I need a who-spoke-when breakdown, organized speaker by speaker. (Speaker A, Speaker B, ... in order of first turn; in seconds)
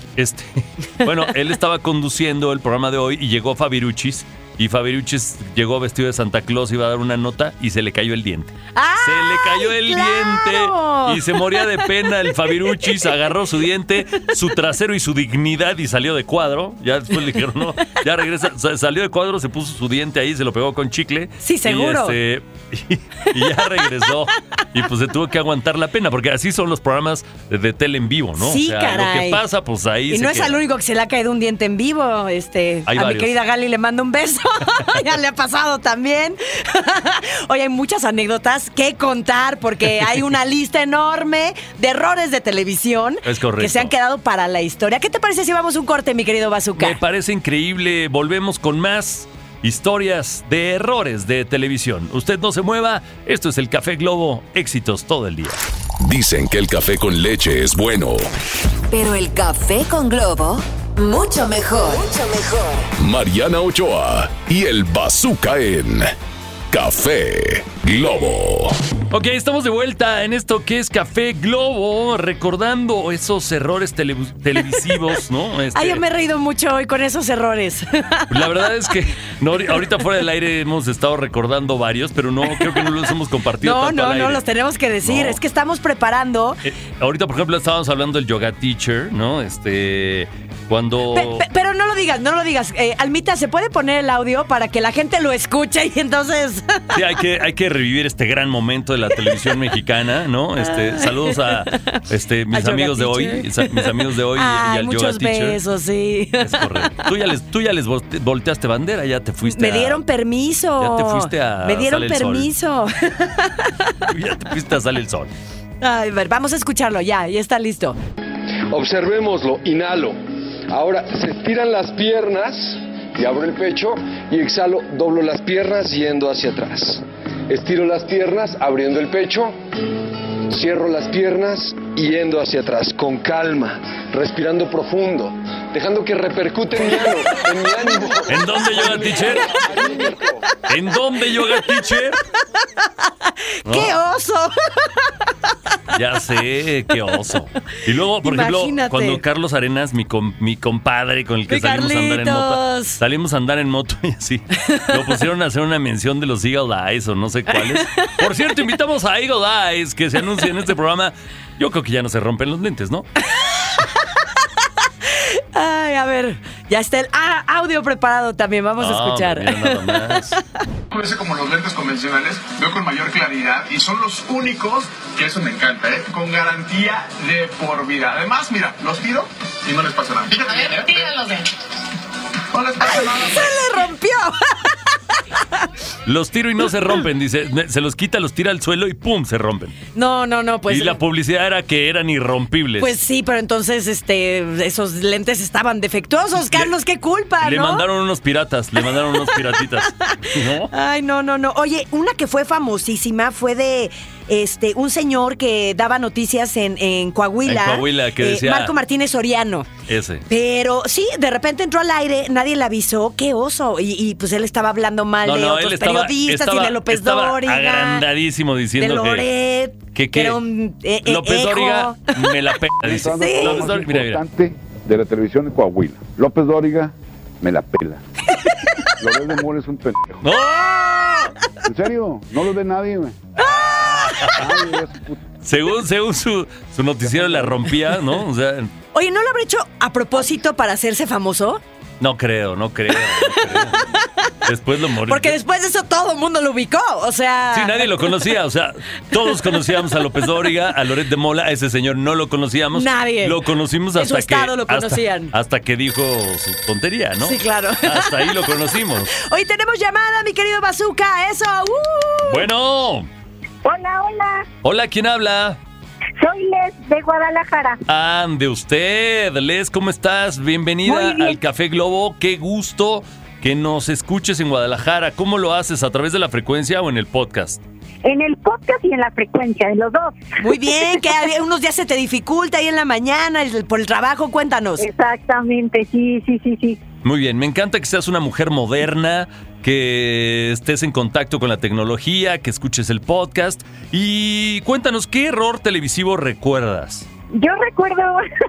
Speaker A: 0.2-30.6, 32.9-33.4, 43.2-43.9, 46.8-55.6, 69.1-76.0, 78.3-84.4, 85.0-85.4, 86.6-91.5, 96.9-105.6, 106.4-110.0, 110.8-112.5, 114.1-115.3, 138.3-139.5, 140.7-142.2, 143.7-143.9, 145.9-163.1, 168.8-170.4, 186.1-189.8, 190.7-192.9, 196.5-196.7, 197.4-200.7, 207.4-208.7, 209.9-210.2, 215.2-219.3, 219.9-220.4, 221.1-224.2, 230.2-231.3, 233.4-234.5, 235.4-238.7, 242.0-243.8, 244.4-245.4, 247.5-259.2, 262.2-263.1, 264.6-265.6, 267.9-277.6, 287.0-297.1
Speaker B: 8.8-13.0, 21.4-22.2, 23.4-24.1, 28.4-29.4, 30.1-47.0, 75.7-78.6, 82.5-82.9, 83.6-86.6, 91.1-97.0, 100.6-102.0, 102.5-106.9, 109.4-114.0, 115.8-118.0, 141.4-141.7, 143.7-145.3, 148.2-149.2, 151.5-153.0, 154.7-155.1, 157.6-158.1, 163.3-164.2, 165.5-170.6, 182.8-184.3, 189.9-191.0, 192.8-197.8, 198.8-209.7, 210.3-218.1, 218.8-222.4, 223.0-223.7, 228.4-228.8, 233.4-234.5, 238.9-241.6, 243.0-244.3, 245.0-248.1, 252.7-253.4, 253.9-255.3, 257.2-258.4, 259.3-262.4, 280.4-284.9
Speaker C: 56.0-58.3, 63.0-66.1, 66.7-68.8
Speaker D: 58.9-62.8
Speaker E: 118.7-120.2, 120.7-129.6, 130.5-140.4
Speaker F: 170.9-181.1, 182.5-183.4
Speaker G: 222.8-228.0, 229.0-230.3, 231.7-233.2, 234.2-235.2, 237.0-237.6
Speaker H: 263.6-264.4, 266.2-267.8, 270.9-271.4, 278.0-280.1, 284.8-286.8, 297.3-298.2